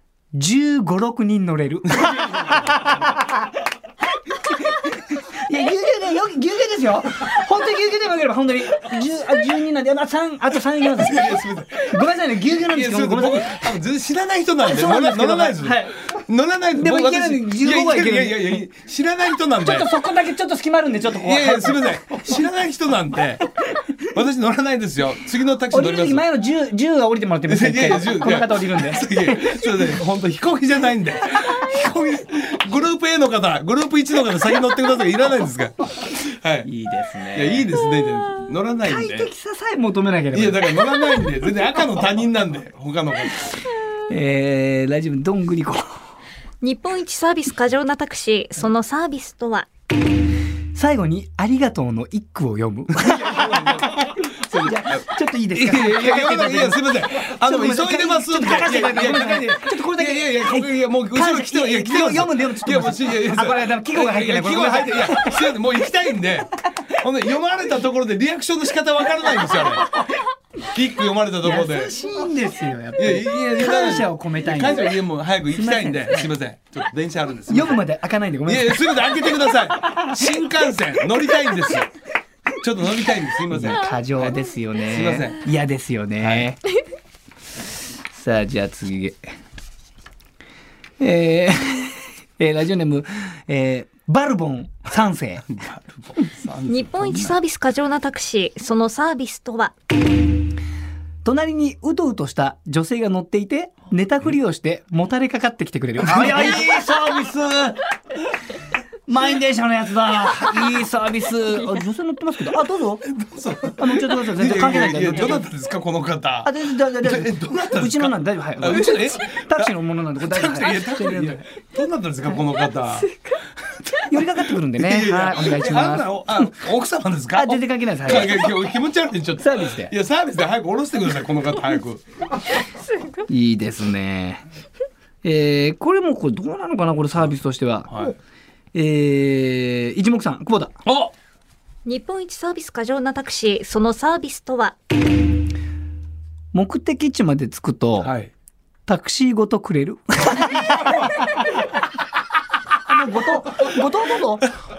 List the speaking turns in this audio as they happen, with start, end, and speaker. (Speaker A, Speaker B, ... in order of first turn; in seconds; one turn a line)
Speaker A: 0.3-3.4
Speaker B: 1.9-3.0
Speaker A: 4.3-11.3
Speaker B: 10.9-12.0
Speaker A: 11.9-13.7
Speaker B: 12.7-19.9
Speaker A: 14.6-16.0
Speaker A: 16.7-18.6
Speaker A: 19.6-22.4
Speaker B: 21.1-23.4
Speaker A: 23.6-23.9
Speaker B: 24.1-26.2
Speaker A: 25.7-29.9
Speaker B: 27.5-36.7
Speaker A: 36.6-37.7
Speaker B: 37.3-39.3
Speaker A: 38.8-40.7
Speaker B: 40.3-43.5
Speaker A: 44.1-46.0
Speaker C: 46.6-49.7
Speaker A: 50.8-65.5
Speaker B: 53.0-69.9
Speaker A: 69.6-70.0
Speaker B: 70.7-72.0
Speaker A: 71.4-75.0
Speaker B: 73.0-77.8
Speaker A: 75.5-76.3
Speaker A: 77.5-79.2
Speaker B: 78.5-81.9
Speaker A: 80.2-80.5
Speaker B: 82.6-85.4
Speaker A: 83.5-86.6
Speaker B: 86.2-86.5
Speaker A: 88.1-89.2
Speaker A: 91.0-95.5
Speaker B: 95.6-97.3
Speaker C: 96.7-99.7
Speaker A: 101.2-107.8
Speaker B: 106.0-107.4
Speaker A: 109.1-113.0
Speaker B: 113.1-123.1
Speaker A: 113.8-115.5
Speaker A: 116.4-121.5
Speaker C: 122.3-124.1
Speaker A: 124.0-126.7
Speaker B: 124.8-132.0
Speaker A: 127.3-128.5
Speaker A: 129.4-129.9
Speaker C: 132.6-133.3
Speaker A: 133.3-134.4
Speaker A: 135.2-138.0
Speaker A: 138.7-140.7
Speaker B: 140.9-141.1
Speaker C: 141.8-144.8
Speaker A: 146.5-148.1
Speaker B: 148.0-148.3
Speaker A: 148.9-151.7
Speaker B: 150.6-151.3
Speaker A: 152.8-154.5